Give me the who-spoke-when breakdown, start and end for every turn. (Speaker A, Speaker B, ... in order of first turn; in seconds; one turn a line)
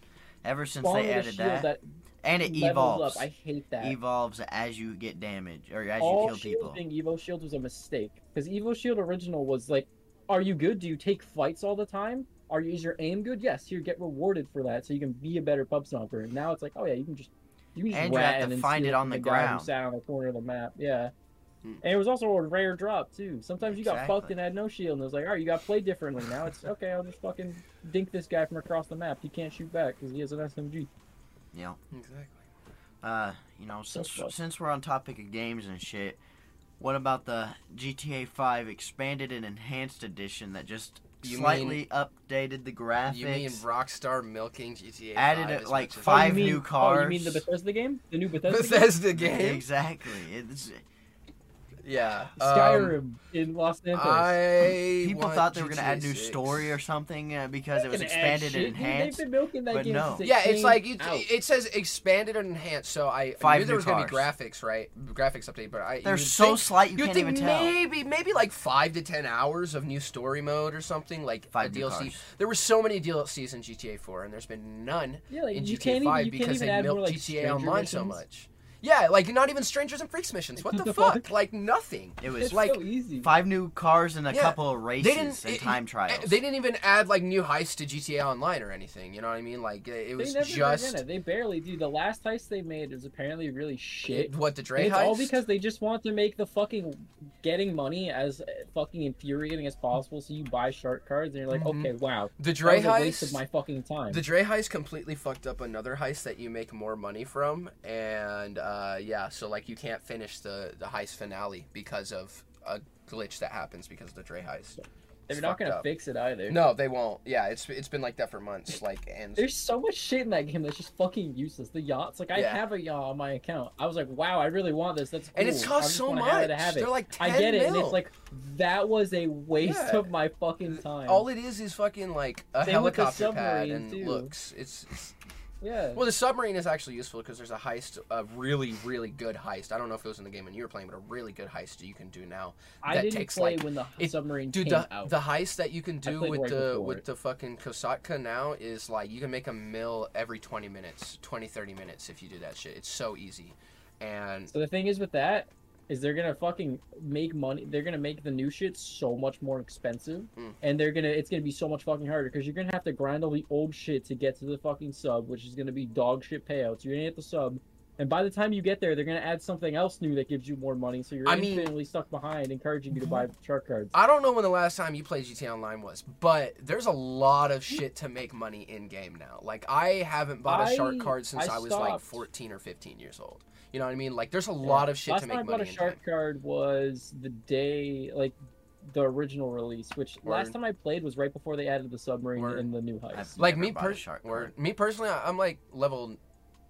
Speaker A: 0.4-1.7
Speaker B: 0.8-1.8
Speaker A: 2.2-3.3
Speaker B: 2.4-4.0
Speaker A: 3.8-6.8
Speaker B: 6.0-21.1
Speaker A: 17.9-19.7
Speaker B: 21.8-30.9
Speaker A: 23.6-24.3
Speaker A: 31.5-31.8
Speaker C: 31.9-32.4
Speaker A: 33.0-36.2
Speaker B: 33.9-34.3
Speaker A: 36.8-43.6
Speaker C: 41.2-41.8
Speaker C: 43.1-46.6
Speaker A: 45.1-47.5
Speaker B: 46.0-48.9
Speaker C: 48.5-49.6
Speaker A: 49.1-50.8
Speaker C: 51.8-53.0
Speaker B: 52.4-54.4
Speaker C: 53.9-56.7
Speaker A: 55.0-60.2
Speaker B: 57.7-61.3
Speaker C: 60.2-82.8
Speaker A: 63.4-64.3
Speaker A: 66.0-67.7
Speaker A: 71.5-72.2
Speaker B: 75.3-78.2
Speaker B: 80.6-81.2
Speaker A: 82.2-82.7
Speaker B: 82.3-83.3
Speaker A: 83.2-86.4
Speaker C: 84.3-91.0
Speaker B: 90.2-104.2
Speaker C: 94.0-95.4
Speaker C: 101.5-103.4
Speaker C: 104.1-115.8
Speaker B: 115.3-116.6
Speaker C: 116.5-119.5
Speaker B: 119.4-131.3
Speaker C: 122.3-122.6
Speaker C: 125.3-128.0
Speaker C: 129.6-130.1
Speaker C: 130.7-135.1
Speaker B: 132.6-134.3
Speaker B: 135.6-136.0
Speaker C: 135.9-154.5
Speaker B: 142.8-145.2
Speaker B: 146.0-147.0
Speaker B: 154.5-173.9
Speaker C: 171.2-171.7
Speaker C: 172.9-173.2
Speaker C: 173.9-186.0
Speaker B: 180.4-182.2
Speaker B: 184.6-193.4
Speaker C: 190.2-190.5
Speaker C: 192.3-192.7
Speaker A: 193.1-194.5
Speaker C: 193.4-196.2